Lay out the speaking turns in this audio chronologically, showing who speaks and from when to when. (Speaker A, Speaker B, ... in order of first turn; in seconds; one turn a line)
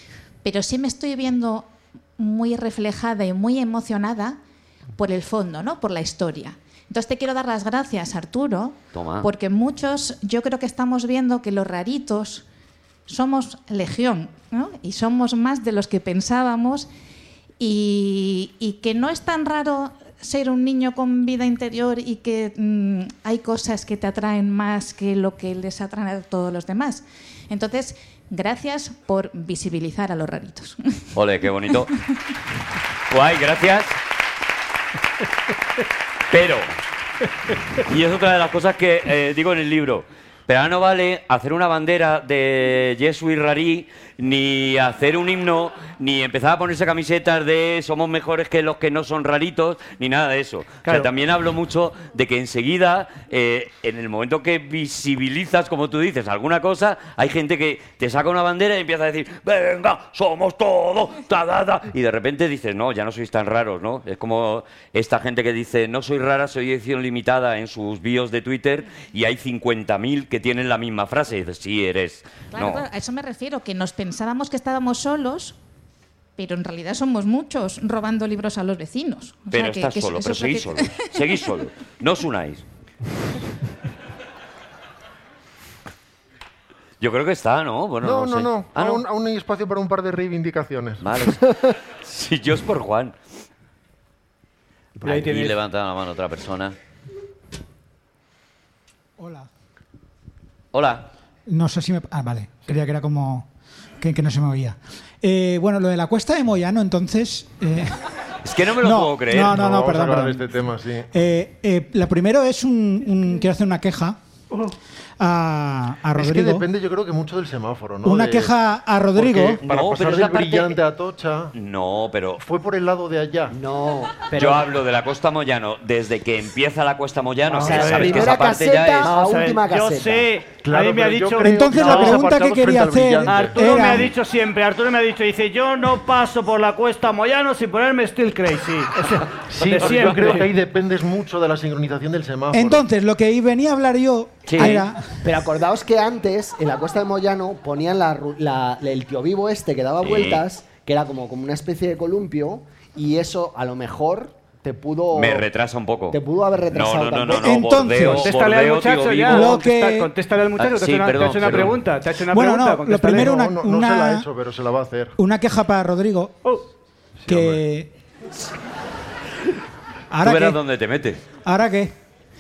Speaker A: 0.4-4.4
Speaker A: 5.0-12.4
Speaker B: 8.9-9.3
Speaker A: 13.1-16.9
Speaker A: 17.6-31.0
Speaker B: 31.1-32.0
Speaker B: 33.1-34.0
Speaker B: 36.3-36.8
Speaker B: 37.8-72.8
Speaker A: 72.5-75.6
Speaker A: 76.4-81.1
Speaker B: 79.5-82.6
Speaker B: 87.0-89.0
Speaker C: 88.0-91.1
Speaker B: 91.0-93.2
Speaker D: 95.0-95.5
Speaker B: 95.0-96.8
Speaker E: 99.2-99.5
Speaker B: 100.7-101.1
Speaker E: 101.5-103.5
Speaker E: 104.0-108.0
Speaker B: 108.4-109.7
Speaker E: 108.7-110.5
Speaker C: 109.4-111.1
Speaker E: 111.1-114.2
Speaker E: 115.2-116.7
Speaker C: 116.2-118.5
Speaker E: 118.0-119.6
Speaker C: 119.1-121.5
Speaker B: 119.6-120.8
Speaker B: 121.5-122.4
Speaker C: 122.4-123.6
Speaker F: 123.5-124.7
Speaker B: 124.3-129.1
Speaker D: 127.5-128.4
Speaker F: 127.5-130.3
Speaker D: 129.0-132.2
Speaker C: 130.6-133.9
Speaker E: 131.4-134.1
Speaker D: 133.3-140.5
Speaker C: 139.5-142.8
Speaker E: 142.5-145.2
Speaker B: 144.5-144.8
Speaker F: 144.6-155.5
Speaker B: 150.0-150.4
Speaker B: 155.1-156.2
Speaker F: 156.1-157.6
Speaker B: 156.7-159.6
Speaker E: 157.4-158.3
Speaker D: 158.1-163.3
Speaker E: 159.3-160.1
Speaker B: 160.6-161.8
Speaker E: 162.3-164.3
Speaker C: 163.1-165.2
Speaker E: 165.2-166.5
Speaker C: 167.2-167.6
Speaker E: 167.3-167.9
Speaker E: 170.1-170.6
Speaker B: 170.2-171.2
Speaker E: 171.4-171.9